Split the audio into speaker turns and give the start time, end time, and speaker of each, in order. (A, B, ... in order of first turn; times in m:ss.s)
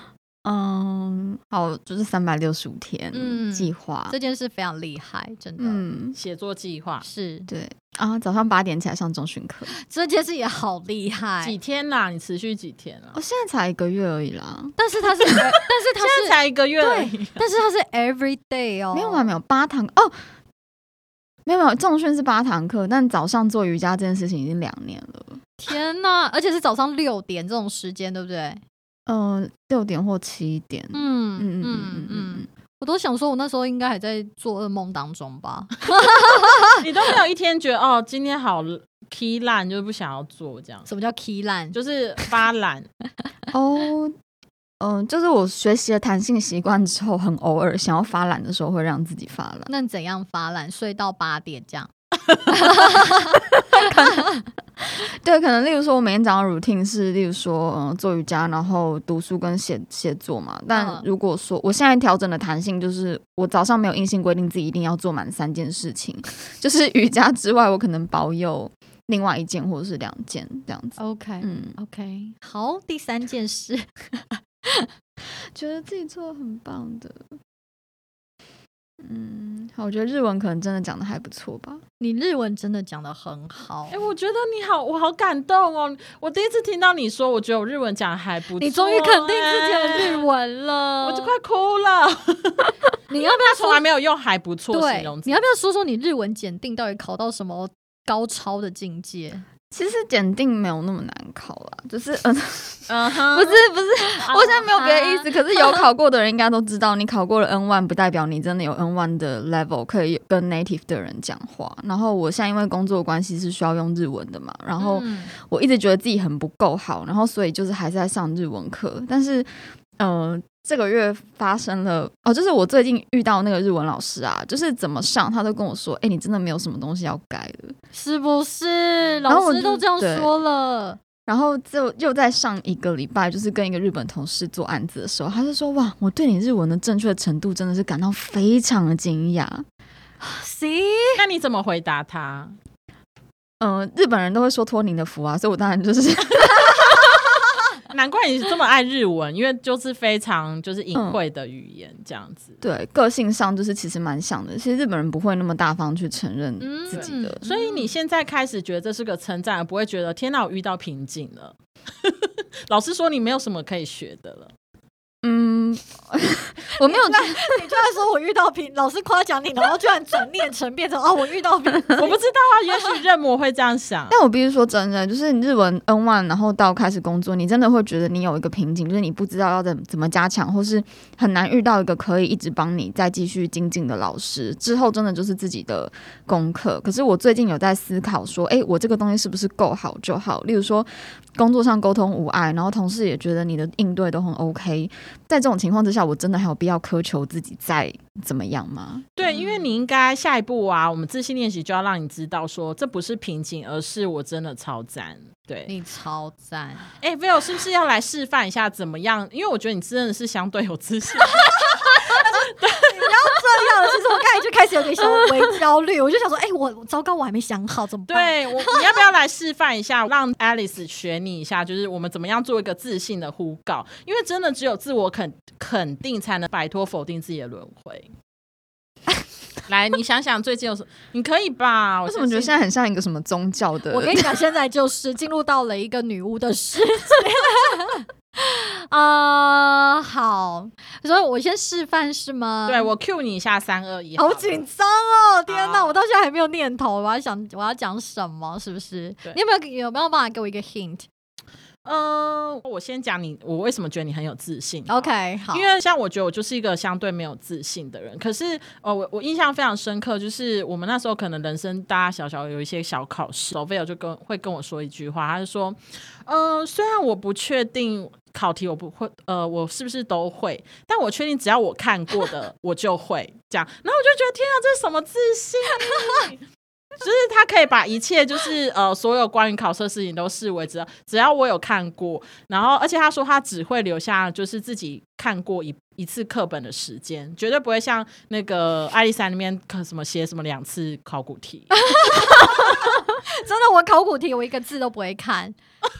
0:00.4-0:04.2 A
0:03.1-0:05.9 B
0:05.6-0:06.2 A
0:06.1-0:07.0 C
0:07.0-0:07.5 B
0:07.5-0:09.7 A
0:09.7-0:11.6 B
0:11.4-0:13.2 C
0:13.1-0:14.8 A
0:14.8-0:19.3 B
0:16.0-0:17.4 C
0:18.9-0:20.2 A
0:21.4-0:25.4 A
0:25.6-0:28.6 B
0:29.1-0:32.4 A
0:30.9-0:36.8 B
0:36.8-0:40.9 C
0:40.9-0:41.8 B
0:41.7-0:42.9 C
0:43.5-0:44.1 A
0:44.8-0:49.7 A
0:49.7-0:51.9 B
0:52.5-0:53.4 B
0:53.7-0:54.3 A
0:55.2-1:11.8 A
1:00.7-1:01.1 B
1:11.0-1:14.8 B
1:15.5-1:17.3 A
1:19.0-1:21.8 A
1:22.0-1:24.1 B
1:23.9-1:30.2 C
1:28.6-1:31.4 B
1:31.0-1:35.4 C
1:33.1-1:33.8 B
1:34.7-1:39.4 B
1:39.7-2:07.7 A
1:42.9-1:43.6 C
1:44.0-1:45.8 B
1:54.8-1:55.3 B
2:07.9-2:11.0 B
2:09.2-2:10.4 A
2:11.3-2:19.6 A
2:20.2-2:21.2 B
2:21.2-2:22.6 C
2:23.6-2:27.1 A
2:27.9-2:32.6 C
2:30.9-2:31.2 A
2:32.6-2:37.4 A
2:36.6-2:37.9 B
2:36.9-2:44.5 C
2:45.2-2:47.5 A
2:46.8-2:52.2 B
2:52.0-2:54.2 C
2:54.1-3:19.1 A
3:19.2-3:25.7 C
3:19.3-3:19.6 B
3:25.7-3:26.8 B
3:27.0-3:33.1 C
3:31.4-3:32.3 B
3:32.8-3:39.0 B
3:38.1-3:48.1 C
3:49.7-3:52.6 C
3:52.0-3:54.4 A
3:53.9-4:02.9 B
4:02.7-4:04.7 C
4:04.2-4:11.1 B
4:05.5-4:06.0 C
4:11.8-4:36.4 C
4:14.9-4:15.7 B
4:37.0-4:51.8 C
4:51.7-4:55.6 B